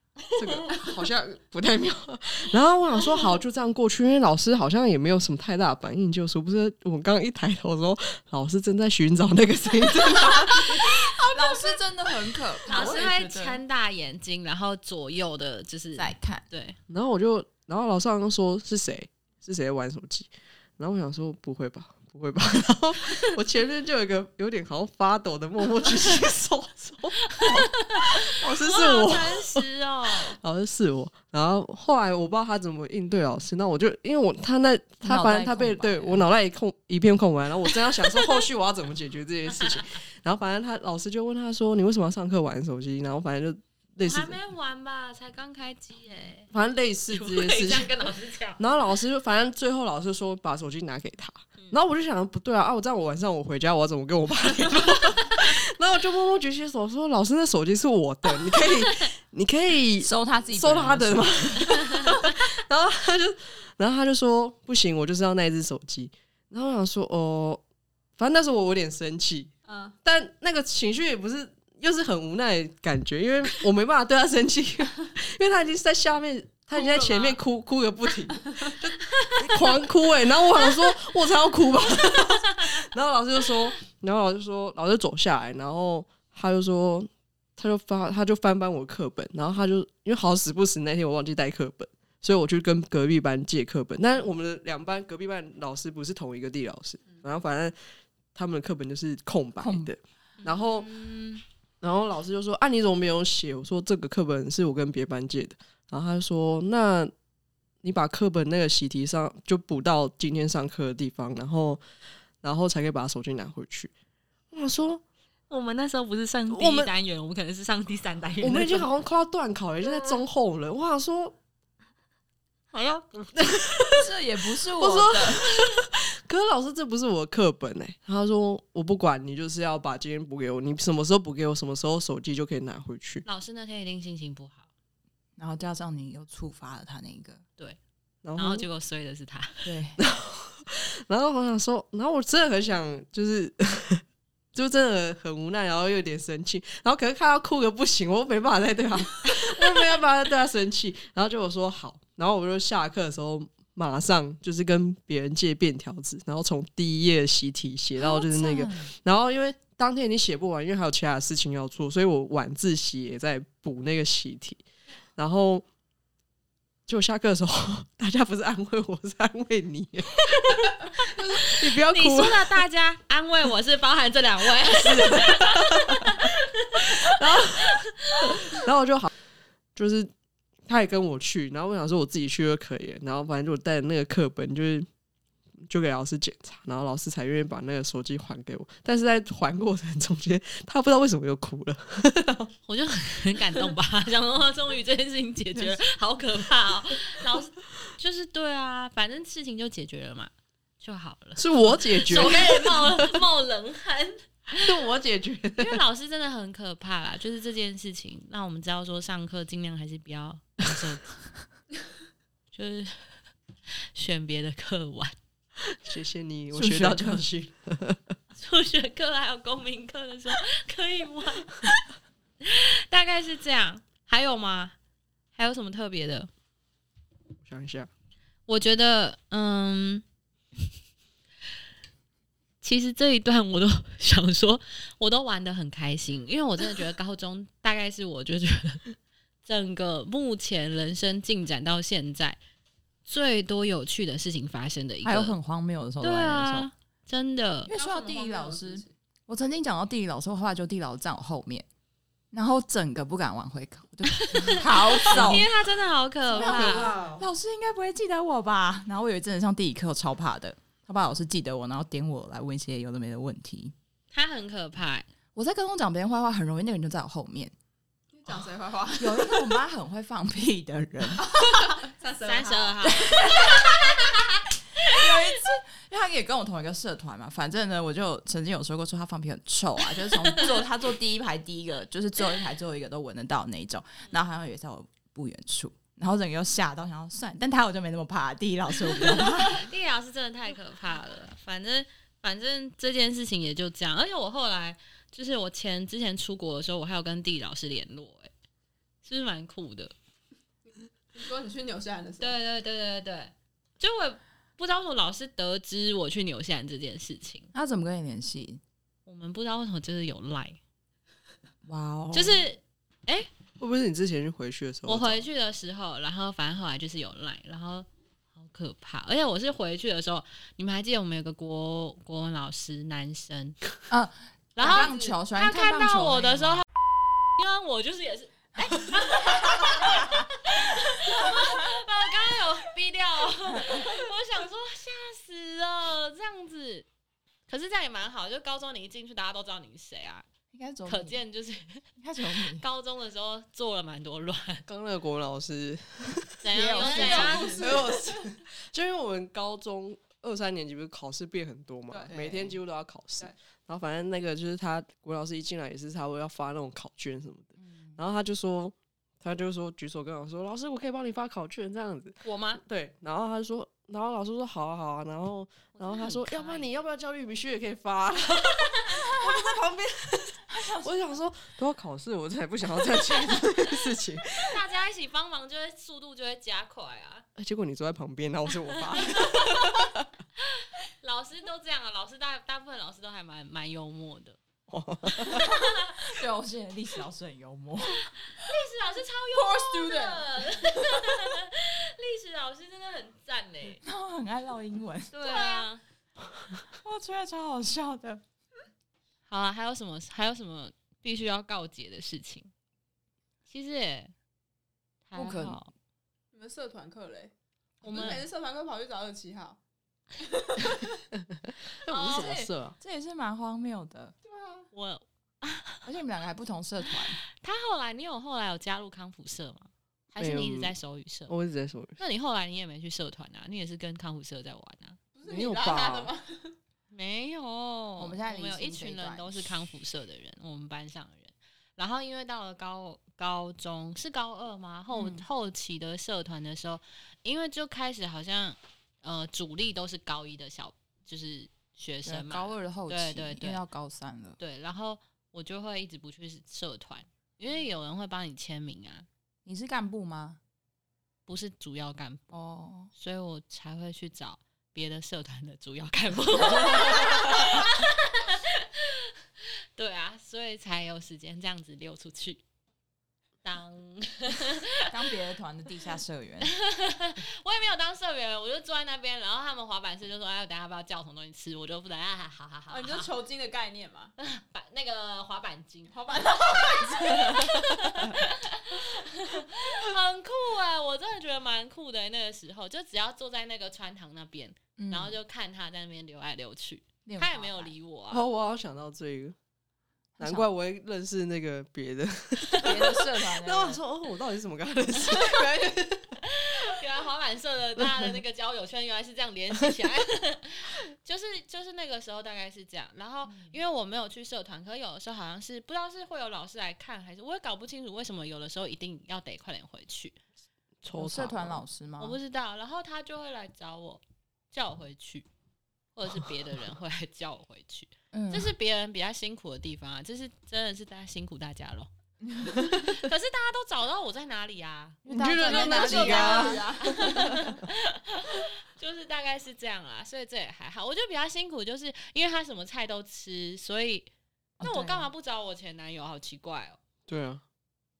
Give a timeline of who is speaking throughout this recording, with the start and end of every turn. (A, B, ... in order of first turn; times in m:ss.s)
0:00.3-0:11.1 A
0:11.0-0:13.6 B
0:12.6-0:16.8 C
0:16.0-0:16.4 B
0:16.9-0:27.2 A
0:27.3-0:30.4 C
0:27.4-0:27.7 B
0:28.0-0:29.6 A
0:30.3-0:44.4 A
0:35.0-0:36.2 B
0:44.0-0:46.5 C
0:46.5-1:07.6 A
0:47.1-0:48.6 C
1:00.0-1:01.9 B
1:08.2-1:09.5 A
1:09.6-1:10.0 D
1:10.0-1:37.7 A
1:16.7-1:17.4 D
1:18.3-1:18.8 D
1:38.3-1:40.9 A
1:39.6-1:39.9 B
1:40.4-1:41.4 C
1:41.8-1:47.1 A
1:47.8-1:51.8 A
1:52.4-1:53.9 A
1:54.5-1:55.0 A
1:55.5-1:58.9 C
1:56.5-1:56.9 A
1:58.4-2:01.3 A
2:02.7-2:03.3 C
2:03.3-2:04.1 A
2:03.9-2:05.4 B
2:04.6-2:13.2 A
2:13.2-2:14.6 C
2:15.4-2:17.4 B
2:18.2-2:18.7 A
2:18.4-2:19.7 C
2:19.6-2:20.0 B
2:20.0-2:24.0 A
2:24.5-2:44.6 A
2:38.0-2:38.9 B
2:45.2-2:45.6 A
2:46.9-2:52.6 A
2:50.3-2:50.7 C
2:51.5-2:58.6 C
2:54.6-2:59.1 A
2:59.7-3:00.1 A
3:00.6-3:04.9 A
3:05.7-3:12.5 A
3:12.7-3:24.7 C
3:21.4-3:23.1 A
3:24.5-3:25.8 A
3:25.6-3:31.0 C
3:32.5-3:33.1 C
3:33.9-3:35.1 C
3:35.8-3:38.1 A
3:36.5-3:37.2 B
3:38.4-3:41.6 C
3:42.4-3:44.8 C
3:45.3-3:46.3 C
3:47.4-3:47.9 A
3:48.5-3:50.0 C
3:52.6-3:58.9 C
3:59.4-4:02.4 C
4:03.0-4:05.3 C
4:05.0-4:06.7 B
4:06.0-4:07.7 C
4:07.7-4:11.6 B
4:07.7-4:08.9 D
4:12.3-4:15.5 B
4:14.1-4:16.9 C
4:16.3-4:17.2 D
4:16.3-4:23.7 B
4:24.1-4:25.1 C
4:25.3-4:27.5 B
4:28.1-4:29.4 D
4:29.0-4:31.4 B
4:31.2-4:33.3 D
4:32.2-4:34.1 C
4:33.0-4:34.3 B
4:34.8-4:49.6 B
4:49.4-4:58.3 C
4:59.0-4:59.9 C
5:01.1-5:02.4 D
5:02.2-5:07.5 C
5:07.5-5:08.6 B
5:09.0-5:10.6 C
5:11.6-5:12.4 B
5:12.1-5:13.3 C
5:13.6-5:15.2 A
5:14.8-5:23.6 C
5:23.9-5:26.6 B
5:24.6-5:26.6 C
5:24.6-5:25.2 D
5:27.3-5:36.9 C
5:28.5-5:30.1 B
5:31.1-5:31.6 B
5:33.5-5:34.0 B
5:37.5-5:40.2 C
5:40.5-5:41.2 B
5:40.8-5:44.6 C
5:42.0-5:42.6 B
5:44.7-6:14.6 A
5:46.4-5:47.8 C
5:46.5-5:48.2 D
5:46.6-5:47.4 B
5:51.9-5:52.6 D
5:57.6-5:58.0 B
6:02.2-6:02.6 C
6:05.7-6:06.7 C
6:10.5-6:10.9 B
6:14.4-6:17.2 C
6:17.4-6:20.0 A
6:19.0-6:19.7 C
6:20.4-6:24.4 C
6:24.7-6:25.5 A
6:25.2-6:26.0 C
6:25.3-6:28.0 B
6:28.0-6:33.8 C
6:29.3-6:30.3 D
6:33.8-6:35.7 B
6:35.1-6:35.8 C
6:36.6-6:38.2 B
6:39.3-6:42.5 C
6:43.5-6:44.1 C
6:45.1-6:45.7 C
6:45.1-6:45.6 B
6:46.3-6:47.3 D
6:47.8-6:48.2 C
6:47.8-6:49.6 D
6:50.2-6:51.0 D
6:51.8-6:52.8 A
6:51.9-6:54.1 B
6:51.9-6:52.3 C
6:54.2-6:54.7 D
6:54.7-6:55.8 C
6:55.8-6:57.2 B
6:57.3-7:01.3 C
7:00.2-7:00.7 A
7:01.3-7:02.0 A
7:02.0-7:05.0 C
7:05.1-7:06.5 D
7:05.2-7:06.1 A
7:06.9-7:23.6 C
7:08.0-7:09.5 B
7:14.9-7:15.2 B
7:22.0-7:24.4 B
7:24.4-7:29.1 C
7:29.4-7:30.4 B
7:31.2-7:32.2 C
7:32.3-7:32.9 B
7:32.9-7:39.1 C
7:36.6-7:37.4 B
7:39.7-7:42.4 C
7:43.4-7:44.9 C
7:44.8-7:46.5 B
7:46.4-7:53.1 C
7:52.7-7:54.1 D
7:54.2-7:56.2 C
7:55.9-7:57.6 D
7:56.7-8:08.2 C
8:04.8-8:05.1 B
8:07.0-8:07.7 B
8:08.1-8:09.3 A
8:10.2-8:10.5 B
8:10.2-8:16.2 A
8:12.6-8:13.8 B
8:16.2-8:30.2 C
8:23.2-8:23.5 B
8:30.8-8:31.6 A
8:30.9-8:32.2 B
8:32.0-8:35.3 C
8:35.9-8:41.9 C
8:38.1-8:38.5 B
8:42.2-8:42.5 B
8:42.4-8:56.8 C
8:45.0-8:46.9 B
8:45.0-8:46.8 A
8:45.6-8:47.2 D
8:54.6-8:55.1 B
8:57.1-8:57.4 A